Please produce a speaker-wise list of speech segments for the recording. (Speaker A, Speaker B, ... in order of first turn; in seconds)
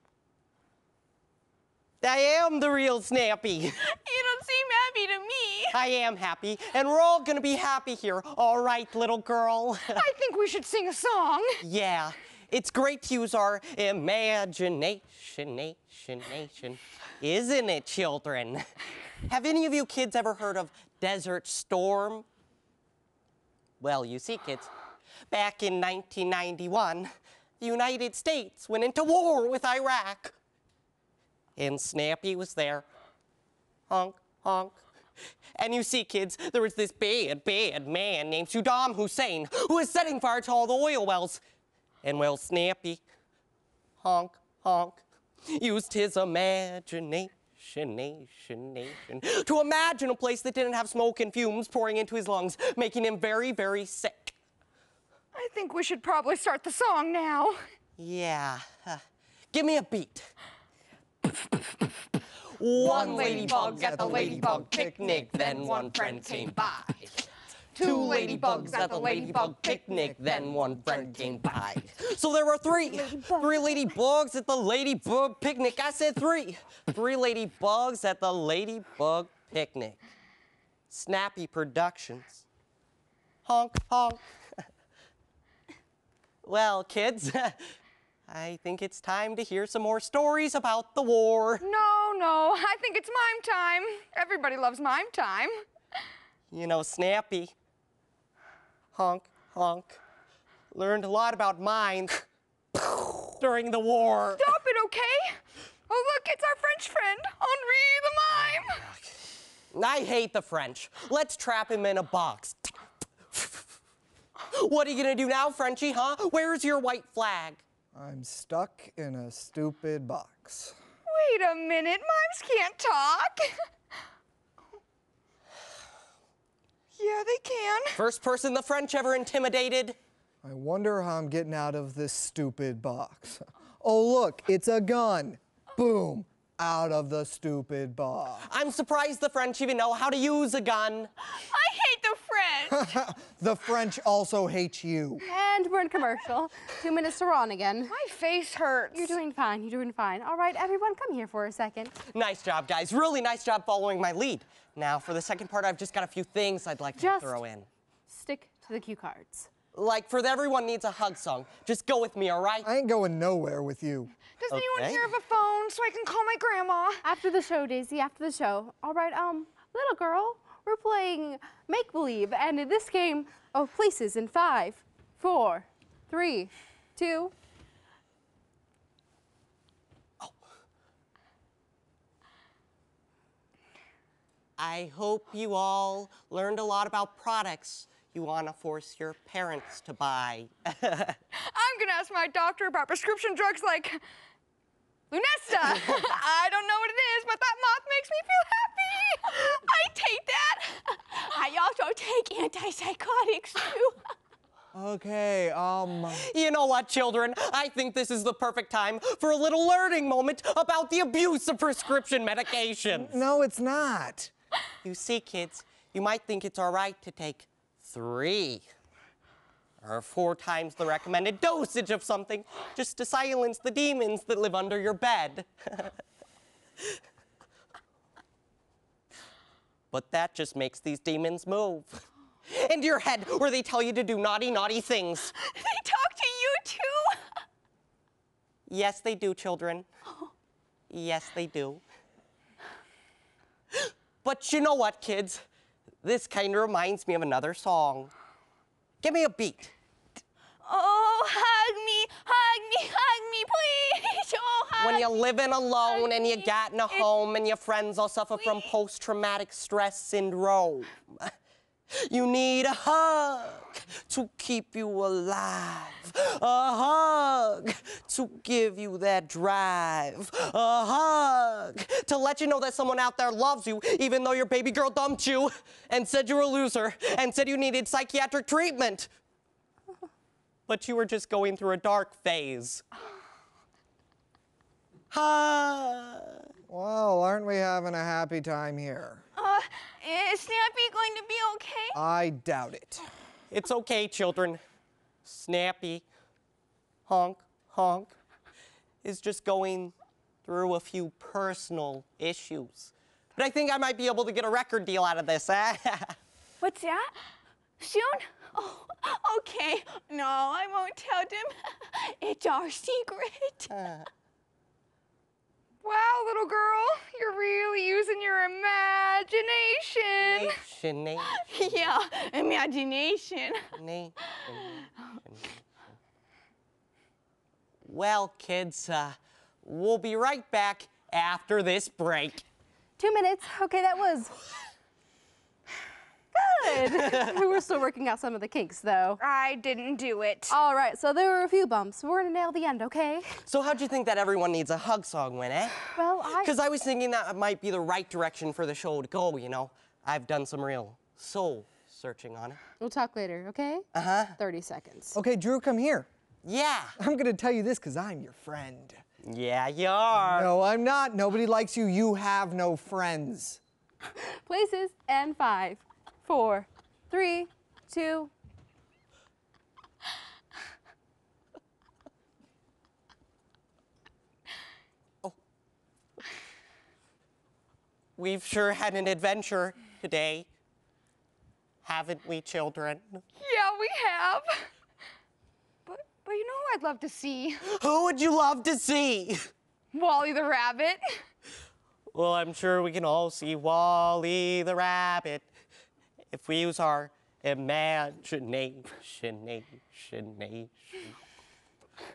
Speaker A: 2.0-3.8, 5.7-10.1, 11.6-18.7, 19.2-22.3, 23.8-24.7, 25.3-30.3, 31.6-32.9, 33.9-34.8, 35.5-41.4, 42.0-43.0, 44.0-54.4, 58.0-59.0, 59.5-60.3, 62.6-67.2, 67.8-80.0, 80.9-82.5, 83.5-84.6, 86.4-87.6, 88.3-91.6, 96.5-97.5, 98.9-100.0, 100.7-104.5, 108.3-109.1, 109.7-112.7, 114.5-117.6, 128.0-130.0, 138.4-141.1, 152.1-157.7, 159.7-162.7, 164.5-165.1, 184.6-191.2, 206.2-213.2, 214.8-218.7, 219.8-226.0, 229.9-235.3, 238.7-239.9, 240.9-241.8, 243.8-245.4, 246.0-248.1, 249.0-249.7, 254.8-261.3, 261.9-279.1, 280.7-282.8, 285.1-286.4, 293.5-294.6, 295.2-296.1, 297.1-298.1, 299.0-299.9, 300.5-306.2, 313.7-314.1, 320.2-322.0, 323.8-325.6, 327.9-332.4, 343.4-352.6, 353.9-354.4, 356.4-357.0, 359.2-360.5, 378.2-380.5, 381.8-383.2, 387.6-389.5, 392.1-395.5, 396.3-401.1
Speaker B: 3.9-5.8, 141.3-142.9, 199.4-204.0, 235.4-237.4, 250.6-255.2, 255.8-257.1, 258.4-258.7, 289.4-292.0, 306.6-307.1, 307.8-313.7, 321.3-323.8
Speaker C: 9.9-11.6, 55.3-57.6, 62.8-66.8, 67.8-69.8, 91.6-95.7, 104.4-108.8, 121.1-123.5, 127.0-128.0, 147.9-149.2, 164.4-167.0, 191.4-194.0, 195.1-199.3, 315.8-320.6, 339.2-340.6, 383.4-384.7, 385.9-387.6, 389.9-391.0
Speaker D: 62.9-65.0, 70.0-71.4, 117.9-120.8, 130.4-138.5, 142.7-145.2, 162.6-164.1, 204.7-206.2, 212.9-214.3, 286.7-289.2, 291.9-293.1, 355.1-356.1, 357.0-359.0, 360.1-363.6
Speaker E: 72.9-73.7, 145.2-147.9, 148.9-151.9, 157.0-157.4, 158.1-159.5, 167.0-177.3, 333.0-334.4, 336.3-339.2, 340.5-343.3, 345.9-346.5, 352.8-353.9, 354.4-355.2, 364.4-368.3